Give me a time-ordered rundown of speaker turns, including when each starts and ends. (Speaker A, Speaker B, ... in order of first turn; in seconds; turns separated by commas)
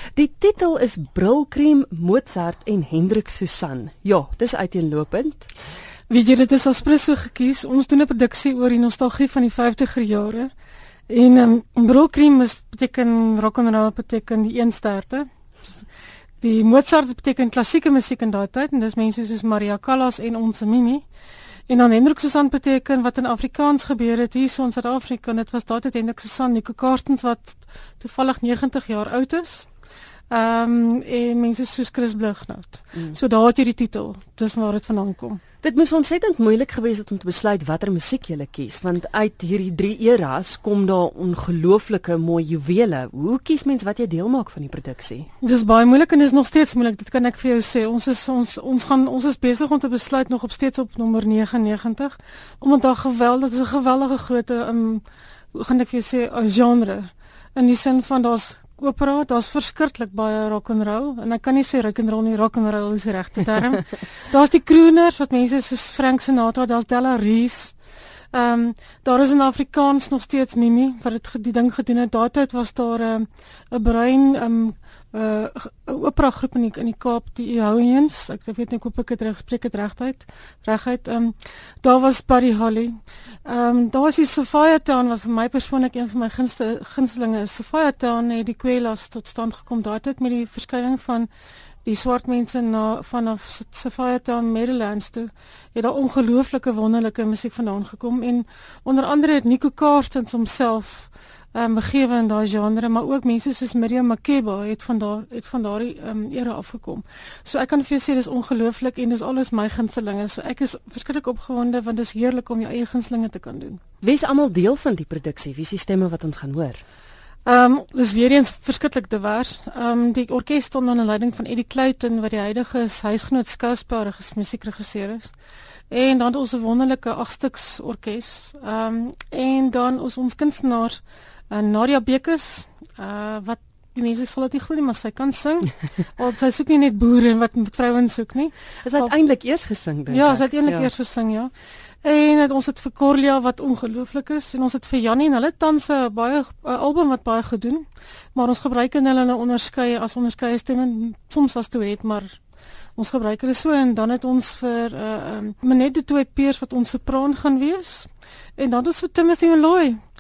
Speaker A: 0.2-5.5, Speaker B: 6.1-10.5, Speaker B: 11.1-15.3, Speaker B: 16.4-21.0, Speaker B: 21.7-29.7, Speaker B: 30.3-35.4, Speaker A: 35.6-45.3, Speaker B: 45.4-67.8, Speaker B: 68.3-91.3, Speaker B: 91.8-113.8, Speaker A: 114.0-116.8, Speaker B: 117.5-125.3, Speaker B: 125.9-139.1, Speaker A: 138.8-140.9, Speaker B: 140.1-141.5, Speaker B: 142.0-152.4, Speaker B: 153.0-160.0